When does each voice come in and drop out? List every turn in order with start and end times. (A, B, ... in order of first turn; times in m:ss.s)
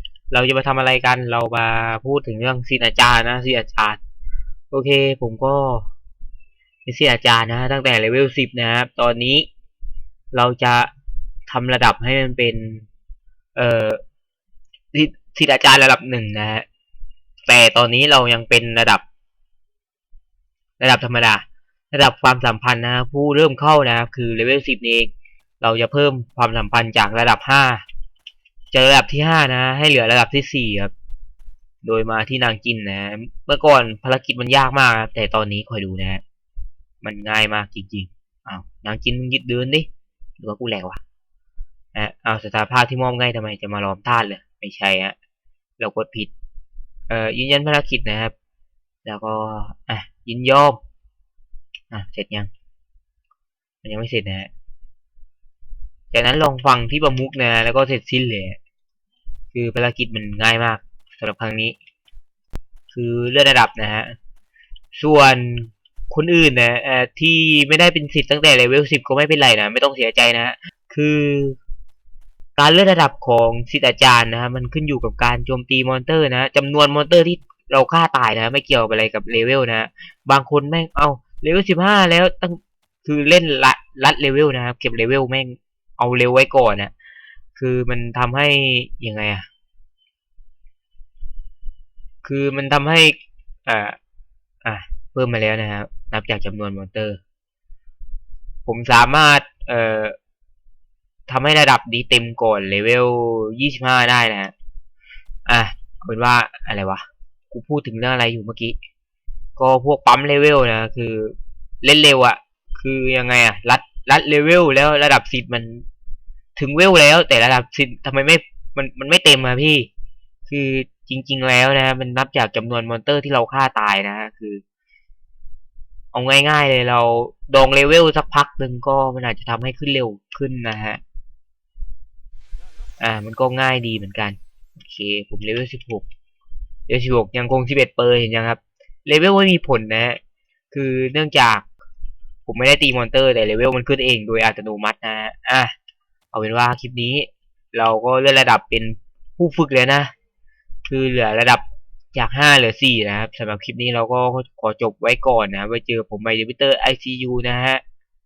0:00.3-0:04.0 A
0:04.7-0:05.9 A
0:06.8-0:09.5 A
0:10.3-0:10.9 A
0:11.5-0:12.9 A
0:13.5-0:14.0 A
0:14.9-0:16.6 A
0:17.5-0:19.0 A
0:20.8-0:27.8 A
0:28.7-0:30.9 A
0:31.8-0:36.2 A
0:37.0-0:39.9 A
0:40.4-0:41.0 A
0:41.9-0:45.2 A
0:45.8-0:46.3 A
0:47.1-0:48.3 A
0:49.0-0:50.8 A
0:51.9-0:52.5 A
0:53.8-0:54.5 A
0:56.1-0:58.6 A
0:59.5-1:01.8 A
1:02.9-1:04.1 A
1:04.9-1:11.6 A
1:12.6-1:26.9 A
1:27.5-1:29.4 A
1:32.2-1:34.0 A
1:34.6-1:37.2 A
1:38.6-1:40.2 A
1:41.3-1:44.5 A
1:45.4-1:48.8 A
1:49.6-1:55.8 A
1:56.6-1:59.9 A
2:00.5-2:04.6 A
2:06.1-2:11.0 A
2:13.0-2:16.0 A
2:16.9-2:20.2 A
2:20.7-2:21.6 A
2:22.4-2:25.7 A
2:26.3-2:30.1 A
2:30.8-2:37.8 A